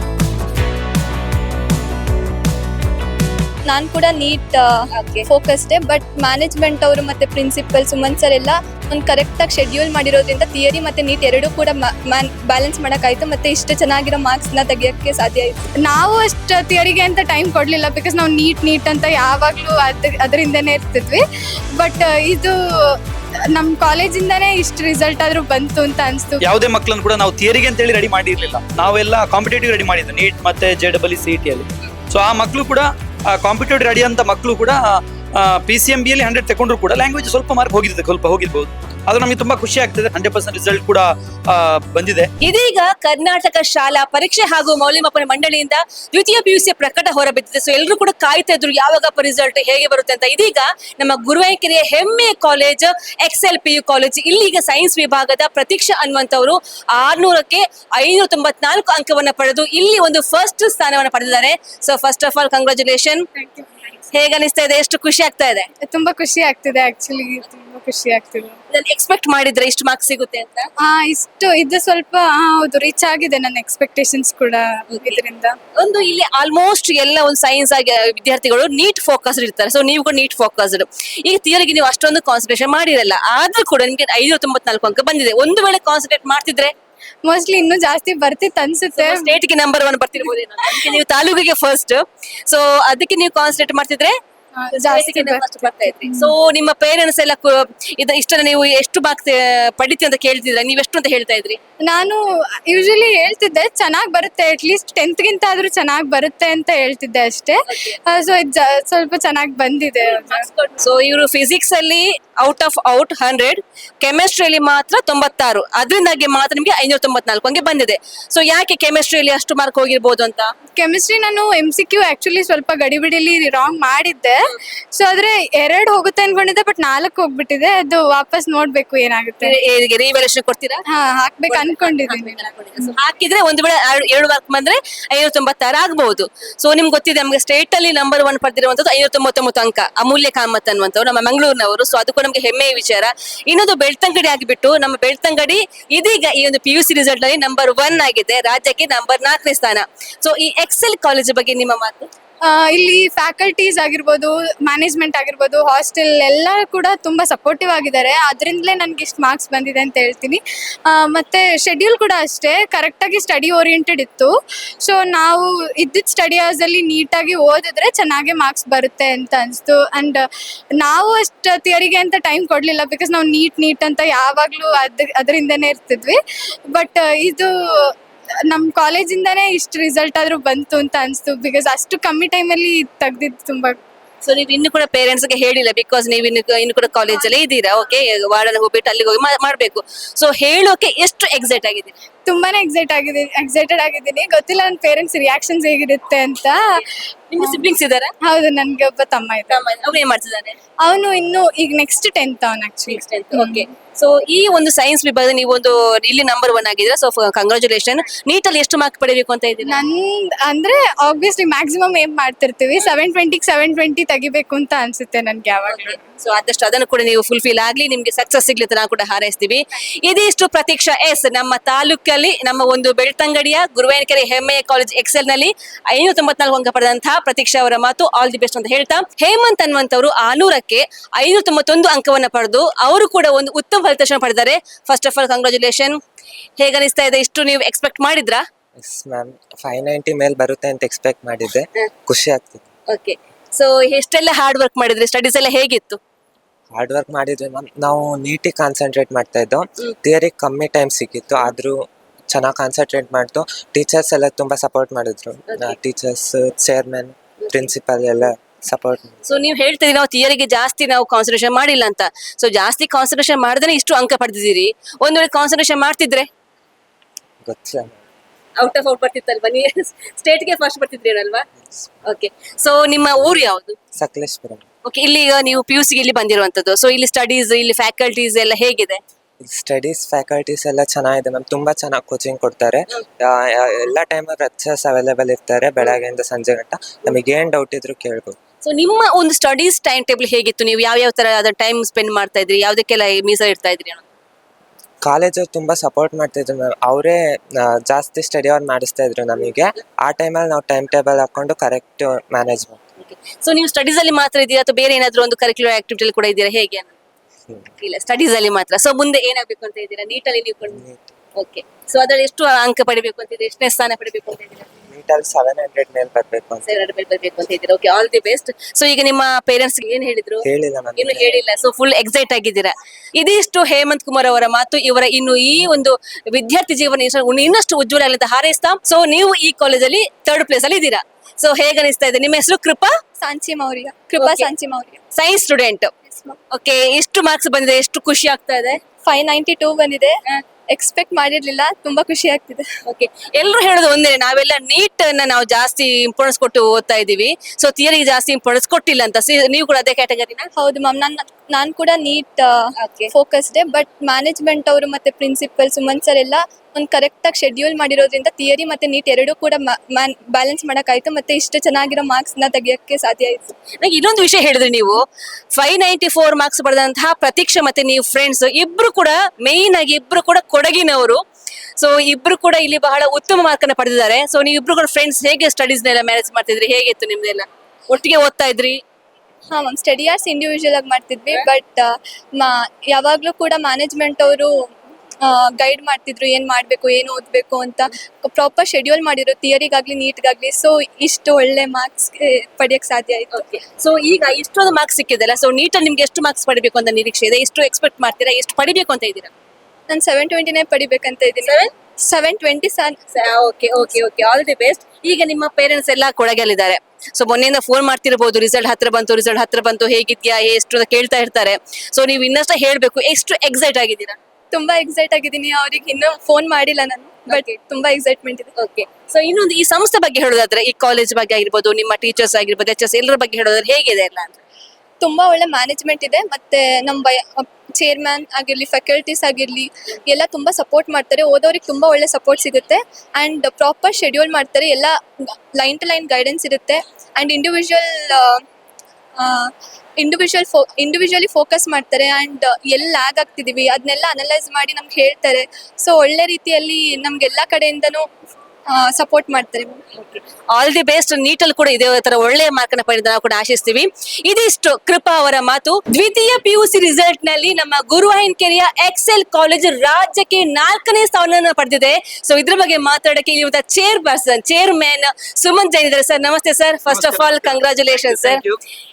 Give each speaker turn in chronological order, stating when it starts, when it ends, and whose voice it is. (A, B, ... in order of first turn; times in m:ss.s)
0:03.7-0:04.7 A
0:04.9-0:05.3 B
0:05.3-0:15.7 A
0:15.9-0:21.2 C
0:21.8-0:23.0 C
0:23.6-0:26.4 C
0:26.4-0:42.3 D
0:42.4-1:03.3 B
1:03.4-1:03.9 C
1:04.1-1:05.7 B
1:05.9-1:08.6 C
1:08.7-1:10.7 B
1:10.8-1:15.6 C
1:14.9-1:15.2 B
1:15.8-1:26.7 B
1:27.2-1:29.4 C
1:29.0-1:34.2 B
1:34.6-1:36.3 C
1:34.7-1:41.6 B
1:41.8-1:50.5 C
1:50.0-2:00.5 B
2:00.8-2:04.4 C
2:04.9-2:09.6 C
2:09.4-2:10.8 B
2:10.9-2:13.0 C
2:11.5-2:32.1 B
2:32.4-2:44.3 C
2:44.8-2:50.2 C
2:50.8-2:56.2 C
2:56.7-2:58.0 C
2:58.5-3:03.8 C
3:04.2-3:12.0 B
3:12.3-3:16.8 C
3:16.6-3:18.1 B
3:17.4-3:17.7 C
3:18.2-3:19.6 C
3:19.5-3:20.6 B
3:20.8-3:23.7 C
3:22.9-3:29.8 B
3:29.6-3:36.0 C
3:35.7-3:56.0 B
3:56.6-3:58.4 B
3:58.8-4:02.7 E
4:02.9-4:06.0 B
4:06.7-4:19.2 E
4:15.5-4:15.8 B
4:19.2-4:26.3 B
4:27.4-4:28.0 E
4:28.6-4:31.5 B
4:32.0-4:33.8 B
4:34.0-4:34.6 E
4:34.8-4:39.0 B
4:39.4-4:48.4 E
4:48.6-4:54.0 B
4:55.0-5:02.8 E
5:03.0-5:07.0 B
5:07.8-5:10.8 B
5:10.7-5:11.1 E
5:11.4-5:14.7 B
5:14.9-5:16.7 E
5:16.6-5:32.9 B
5:20.4-5:21.4 E
5:33.2-5:35.0 A
5:34.2-5:34.5 B
5:35.1-5:35.9 B
5:36.1-5:36.4 A
5:36.5-5:38.8 B
5:39.0-5:40.2 A
5:40.7-5:42.7 A
5:42.9-5:50.5 B
5:50.6-6:03.5 A
5:52.8-5:53.1 B
6:03.8-6:05.0 B
6:05.6-6:11.2 B
6:11.8-6:18.8 B
6:19.5-6:24.7 A
6:25.2-6:33.5 A
6:33.3-6:39.3 B
6:39.9-6:43.0 A
6:41.4-6:41.7 B
6:43.1-6:54.2 B
6:54.5-6:58.5 A
6:58.6-7:04.4 B
7:05.0-7:14.9 A
7:15.6-7:18.4 A
7:19.2-7:28.1 A
7:28.7-7:29.8 A
7:30.0-7:48.4 B
7:46.9-7:48.6 D